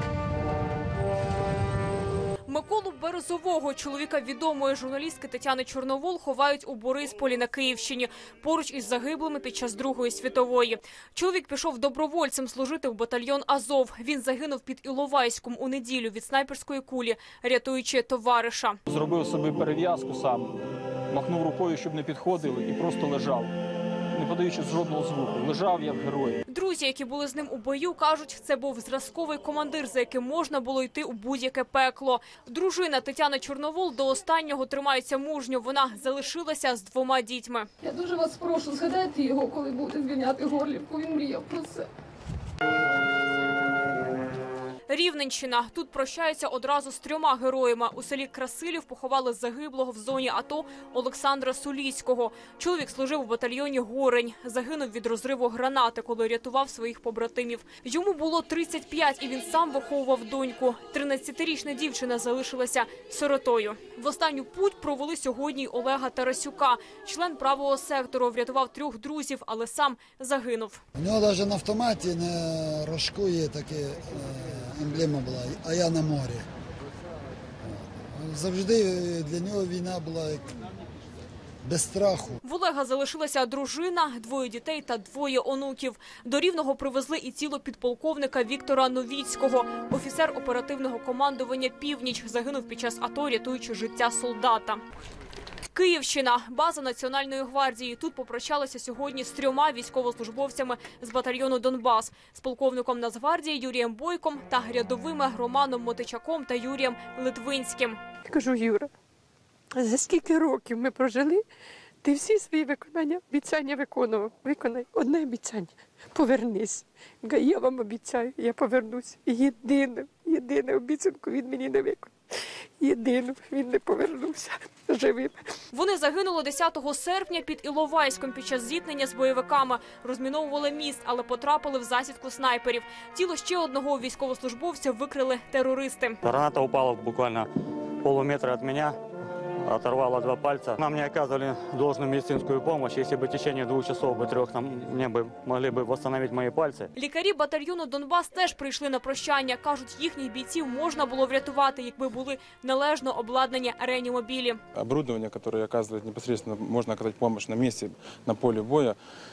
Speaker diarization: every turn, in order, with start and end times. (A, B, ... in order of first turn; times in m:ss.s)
0:02.5-0:18.8 A
0:18.9-0:23.5 B
0:24.1-0:26.4 B
0:26.5-0:37.7 A
0:37.8-0:41.9 C
0:44.9-1:10.8 A
1:11.0-1:16.5 D
1:17.7-1:20.6 D
1:21.6-1:22.4 D
1:22.4-1:34.8 A
1:35.7-1:48.0 A
1:48.3-1:48.9 E
1:49.8-1:51.4 E
1:52.0-2:02.1 E
2:02.8-2:05.4 E
2:05.7-2:16.2 A
2:16.2-2:17.5 F
2:18.0-2:19.0 F
2:19.6-2:26.9 F
2:27.0-2:34.6 A
2:34.8-2:39.0 G